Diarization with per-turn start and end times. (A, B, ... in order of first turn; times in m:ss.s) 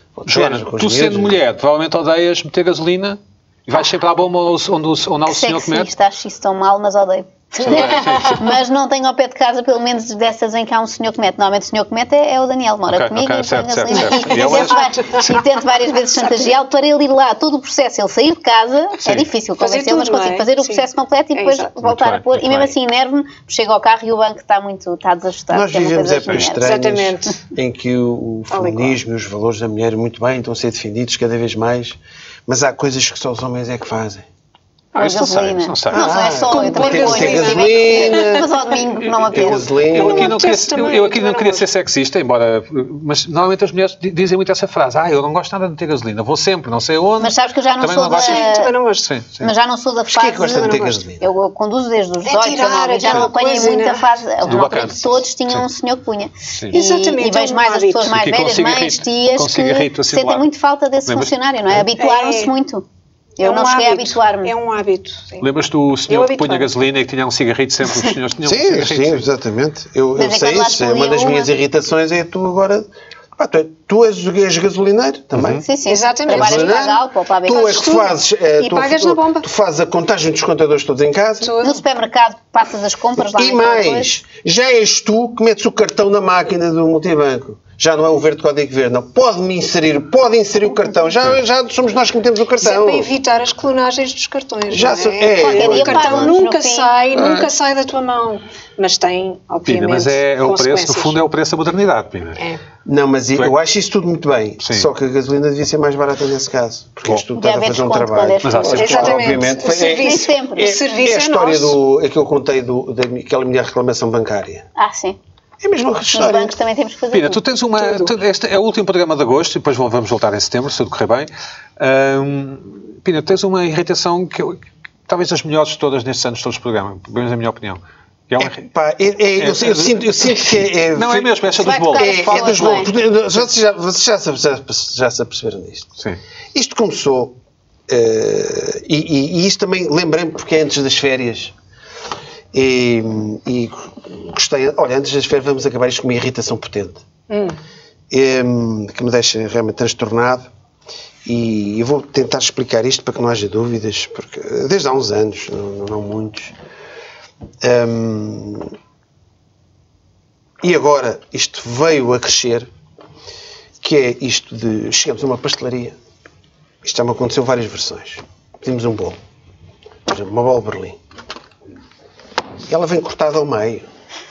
0:00.2-0:01.4 A
0:00.3-0:05.9 B
0:05.2-0:26.7 C
0:07.6-0:08.5 B
0:12.9-0:14.9 B
0:14.1-0:15.4 D
0:19.0-0:19.3 B
0:19.6-0:21.7 D
0:21.8-0:22.7 B
0:25.5-0:34.3 A
0:26.6-0:27.4 D
0:28.5-0:29.0 D
0:34.9-0:36.3 B
0:34.9-0:39.6 C
0:35.9-0:38.5 A
0:36.5-0:38.6 D
0:39.0-0:49.5 B
0:39.3-0:40.4 A
0:39.9-0:41.7 D
0:47.2-0:48.7 C
0:48.2-0:49.1 D
0:49.4-1:02.8 C
0:50.1-0:51.3 A
0:52.2-0:54.2 D
0:53.0-0:53.3 B
0:54.4-0:55.7 B
0:56.7-0:58.1 D
0:58.1-1:00.4 B
1:01.0-1:01.8 B
1:02.0-1:02.5 D
1:03.4-1:04.5 C
1:03.4-1:05.4 D
1:05.4-1:09.3 B
1:06.1-1:06.7 D
1:08.4-1:15.6 A
1:10.1-1:11.5 C
1:15.4-1:15.6 B
1:15.6-1:17.8 C
1:15.8-1:16.8 D
1:16.3-1:21.6 A
1:17.5-1:19.4 D
1:21.4-1:21.8 D
1:21.6-1:24.1 C
1:23.2-1:33.1 A
1:32.6-1:41.2 D
1:34.7-1:36.4 A
1:35.4-1:37.0 C
1:39.6-1:42.4 B
1:42.8-1:54.7 A
1:44.6-1:44.9 B
1:47.3-1:50.7 C
1:48.4-1:49.4 B
1:48.7-1:51.8 D
1:54.8-1:55.2 C
1:55.6-1:56.6 A
1:56.1-1:57.4 C
1:57.1-2:08.6 B
1:57.8-1:58.1 D
2:08.4-2:15.9 A
2:09.4-2:12.9 B
2:11.6-2:12.9 C
2:16.5-2:17.4 A
2:17.9-2:21.5 A
2:22.5-2:27.0 A
2:27.3-2:27.6 D
2:28.1-2:30.5 A
2:31.2-2:36.5 A
2:37.6-2:38.7 A
2:40.6-2:42.7 A
2:43.8-2:46.0 A
2:46.8-2:49.2 A
2:50.0-2:51.0 A
2:52.7-2:53.9 A